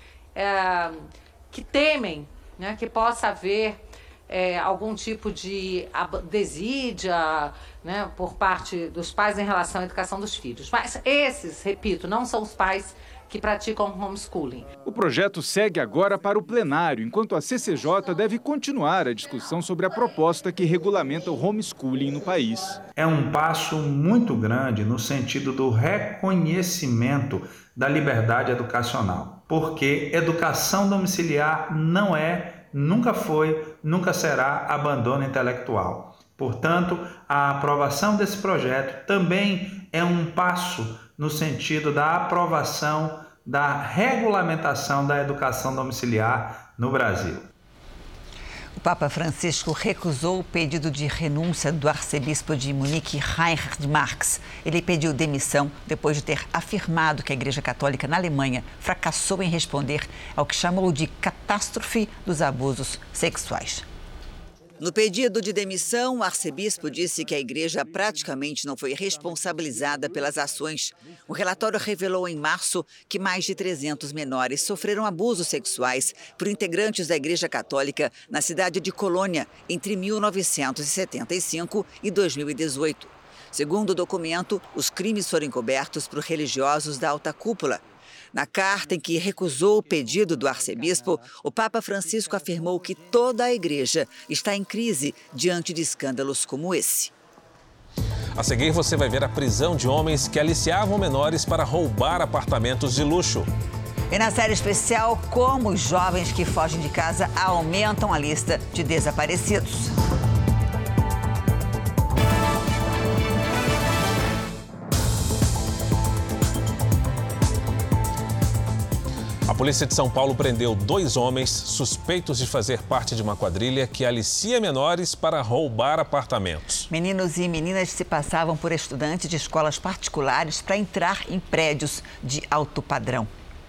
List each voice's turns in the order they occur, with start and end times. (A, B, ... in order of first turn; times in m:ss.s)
0:00.3-0:14.7 A
0:14.8-0:22.8 B
0:23.0-0:47.5 C
0:48.8-1:03.8 D
1:04.8-1:27.8 D
1:28.3-1:37.1 D
1:38.4-1:43.5 E
1:44.1-1:49.9 D
1:59.5-2:06.9 E
2:06.9-2:13.3 D